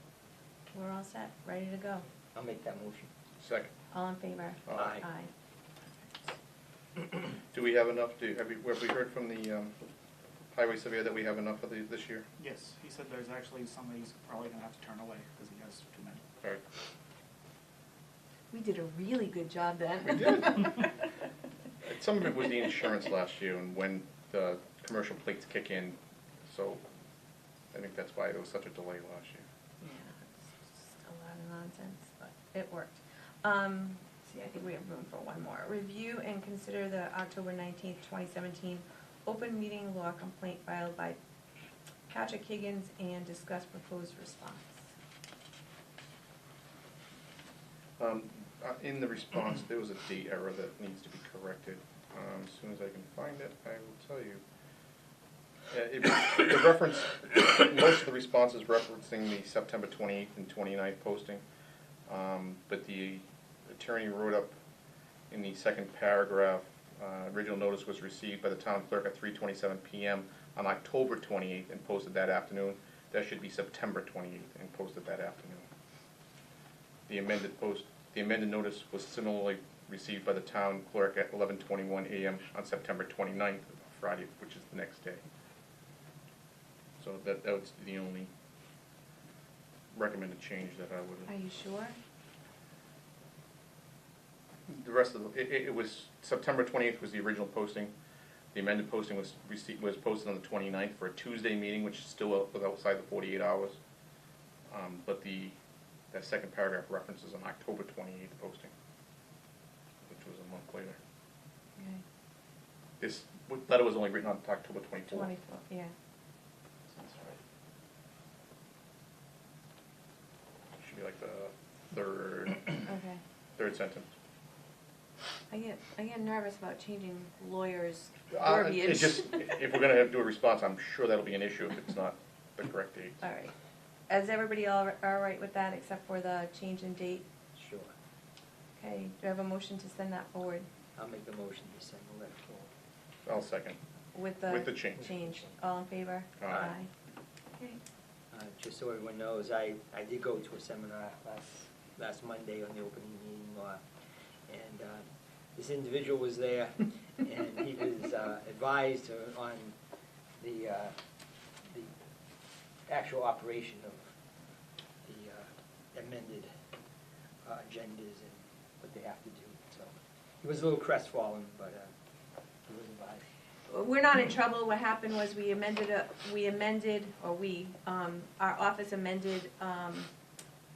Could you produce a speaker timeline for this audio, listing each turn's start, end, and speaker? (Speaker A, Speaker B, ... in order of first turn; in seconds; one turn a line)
Speaker A: 0.7-2.0
Speaker B: 2.3-3.1
Speaker C: 3.4-3.7
Speaker A: 3.9-5.3
Speaker B: 4.8-5.0
Speaker C: 7.5-9.7
Speaker C: 10.5-12.2
Speaker D: 12.4-16.2
Speaker A: 18.5-20.9
Speaker C: 20.0-20.6
Speaker C: 21.8-25.9
Speaker C: 26.5-26.8
Speaker C: 27.7-29.4
Speaker A: 29.8-41.2
Speaker A: 42.1-44.9
Speaker C: 48.0-54.4
Speaker C: 55.7-61.4
Speaker C: 62.1-64.5
Speaker C: 65.3-75.7
Speaker C: 77.1-85.2
Speaker C: 87.0-88.3
Speaker C: 89.9-91.3
Speaker A: 91.3-92.0
Speaker C: 94.7-97.9
Speaker C: 98.5-103.8
Speaker C: 104.7-105.5
Speaker C: 106.1-108.7
Speaker C: 110.0-111.0
Speaker A: 111.8-112.0
Speaker C: 113.0-115.3
Speaker A: 115.1-115.9
Speaker C: 117.0-117.4
Speaker C: 120.8-122.9
Speaker A: 122.8-123.2
Speaker C: 123.6-124.1
Speaker A: 125.5-129.4
Speaker C: 128.3-133.2
Speaker A: 133.2-133.5
Speaker A: 134.1-137.2
Speaker B: 137.5-137.9
Speaker A: 138.8-140.7
Speaker B: 140.9-142.7
Speaker C: 143.2-143.8
Speaker A: 144.1-146.9
Speaker C: 144.5-145.1
Speaker C: 146.4-146.7
Speaker B: 148.3-153.8
Speaker B: 154.5-155.0
Speaker B: 155.6-159.7
Speaker B: 160.4-160.9
Speaker B: 162.9-164.1
Speaker B: 165.0-166.5
Speaker B: 167.4-171.9
Speaker B: 172.7-173.2
Speaker A: 173.7-180.1